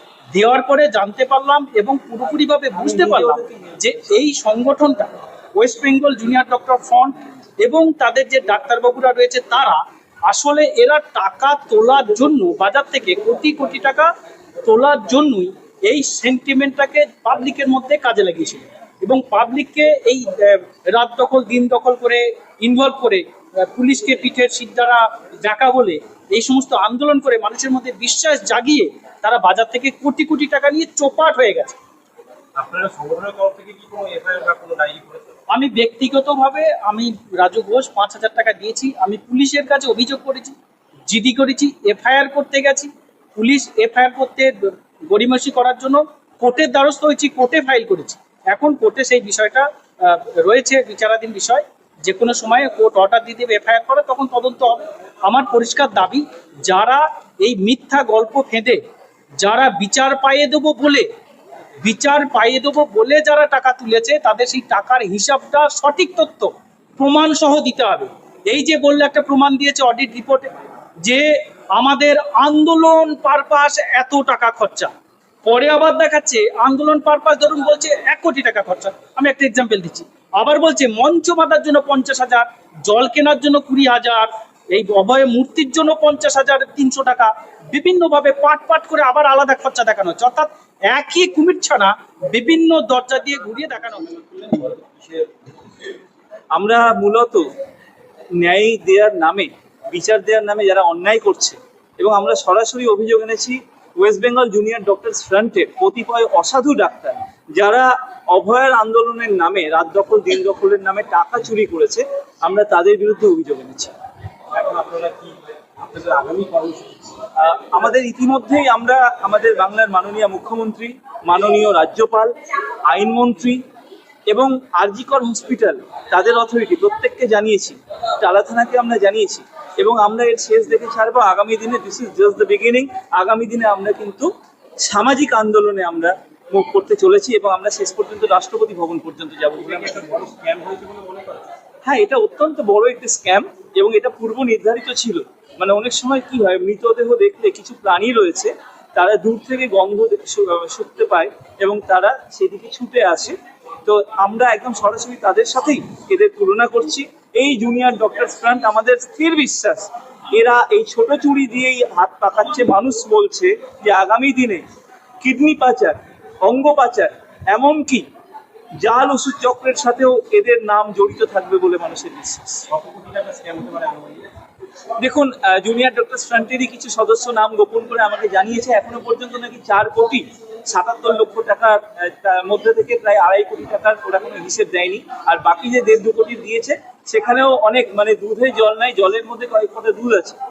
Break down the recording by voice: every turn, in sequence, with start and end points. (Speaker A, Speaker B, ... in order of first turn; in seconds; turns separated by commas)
Speaker A: 0.3-14.1, Speaker B: 2.7-3.4, Speaker A: 14.6-31.8, Speaker C: 32.6-35.3, Speaker A: 35.5-40.5, Speaker A: 41.1-44.5, Speaker A: 45.1-58.8, Speaker A: 59.4-61.0, Speaker A: 61.8-71.2, Speaker A: 71.8-74.9, Speaker A: 75.4-94.1, Speaker C: 94.5-95.2, Speaker B: 96.5-97.4, Speaker B: 98.4-113.9, Speaker C: 114.5-117.1, Speaker B: 117.4-122.3, Speaker B: 122.9-123.6, Speaker B: 124.3-134.3, Speaker B: 134.8-140.0, Speaker C: 139.6-141.5, Speaker B: 141.8-164.6, Speaker B: 165.2-168.0, Speaker B: 168.8-172.6, Speaker C: 172.7-174.2, Speaker B: 175.0-190.4